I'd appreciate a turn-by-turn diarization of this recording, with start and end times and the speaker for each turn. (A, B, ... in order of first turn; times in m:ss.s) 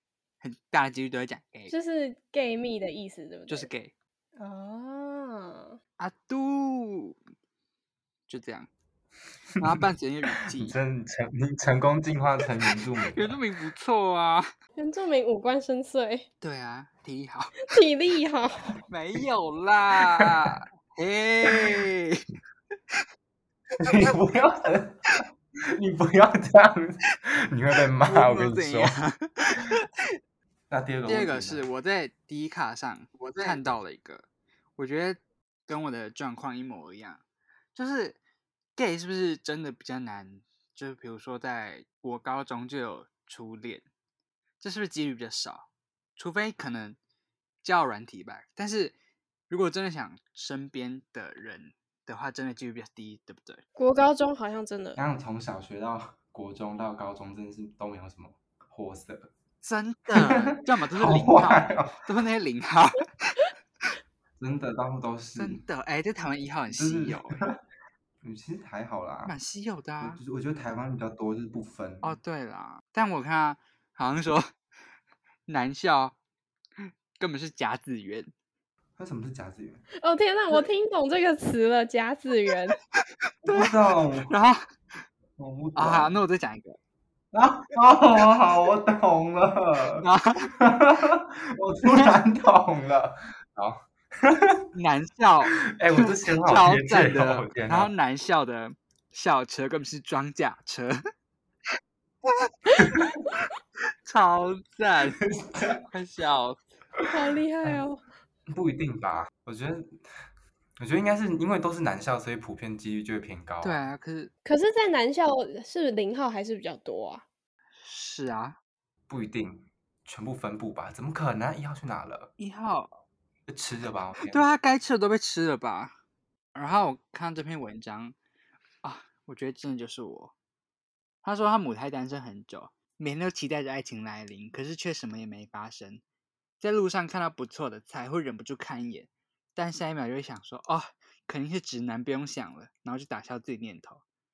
0:00.4-0:01.7 A
0:01.7-0:03.7 B
0:03.5-0:03.9 A
0:04.4-0:05.8 B
0:06.0-0:07.2 A
0:08.3-0:08.7 A
0:09.6-0:10.8 A
0:10.5-0:13.4 C
0:12.7-0:14.5 A
0:14.8-0:16.3 B
0:16.4-0:17.6 A
0:17.6-0:18.7 B
0:18.9-0:22.2 A
0:20.0-0:20.5 C
0:21.5-0:21.8 C
0:23.8-0:25.0 C
0:23.8-0:24.2 A
0:25.7-0:29.0 C
0:28.0-0:29.9 A
0:30.7-0:31.7 C
0:31.1-0:34.3 A
0:33.4-0:33.7 C
0:34.8-0:37.2 A
0:37.8-0:38.2 A
0:38.8-0:43.9 A
0:44.6-0:47.0 A
0:47.6-0:48.9 A
0:49.5-0:53.6 A
0:53.8-0:55.0 B
0:55.0-0:59.3 C
0:59.6-1:03.4 A
1:00.2-1:02.0 C
1:04.4-1:05.6 C
1:05.4-1:07.4 A
1:06.7-1:07.6 C
1:08.2-1:09.3 C
1:09.2-1:10.2 A
1:10.0-1:12.2 C
1:12.0-1:14.5 A
1:15.5-1:16.2 A
1:16.8-1:18.3 A
1:19.0-1:19.8 C
1:20.0-1:22.8 B
1:23.4-1:24.3 C
1:23.4-1:24.6 A
1:25.4-1:26.1 C
1:25.8-1:26.8 A
1:27.3-1:30.1 C
1:30.0-1:30.7 A
1:30.6-1:34.6 C
1:34.8-1:41.0 A
1:35.6-1:37.9 C
1:42.2-1:43.1 A
1:42.8-1:43.1 C
1:44.1-1:45.2 A
1:45.3-1:45.8 C
1:45.9-1:46.6 A
1:47.1-1:48.0 B
1:48.5-1:50.0 C
1:50.8-1:53.8 C
1:53.6-1:54.3 A
1:54.4-1:57.3 B
1:57.8-1:58.6 A
1:59.1-2:02.3 C
2:02.4-2:03.0 A
2:03.5-2:04.4 C
2:04.2-2:05.9 A
2:06.6-2:08.2 A
2:08.8-2:10.3 A
2:11.2-2:16.0 A
2:16.6-2:24.0 A